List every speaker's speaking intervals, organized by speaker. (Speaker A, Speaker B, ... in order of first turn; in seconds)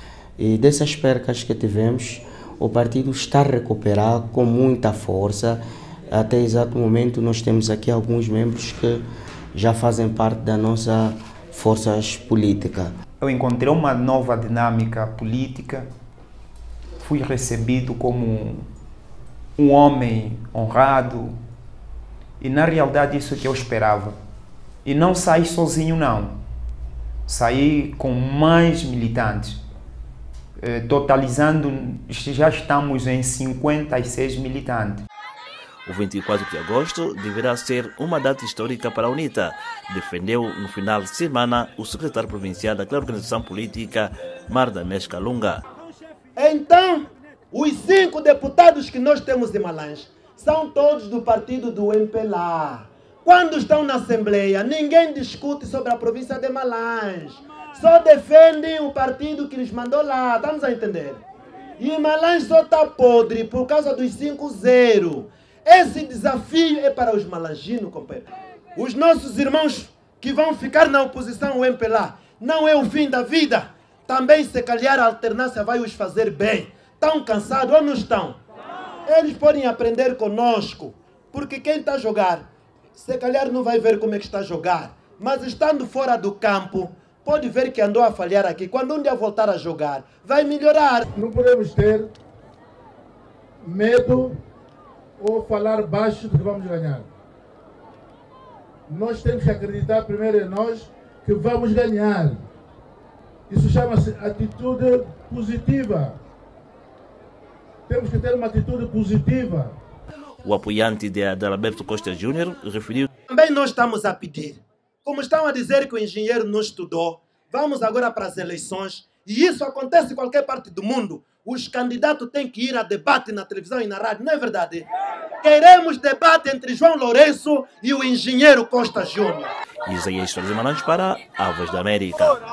Speaker A: 0.4-5.6, 6.1-9.0, 9.5-12.9
Speaker B: 13.2-15.9, 17.0-18.7, 19.6-21.4, 22.4-24.1, 24.9-26.4, 27.3-29.6, 30.6-35.0
Speaker C: 35.9-45.6, 110.4-113.1, 129.9-132.4
Speaker D: 46.4-61.2, 61.8-78.4, 79.1-91.1, 113.3-124.9, 125.4-129.5
Speaker E: 91.1-92.1, 93.6-94.4, 95.2-97.1, 98.9-102.4, 103.5-106.2, 107.9-109.8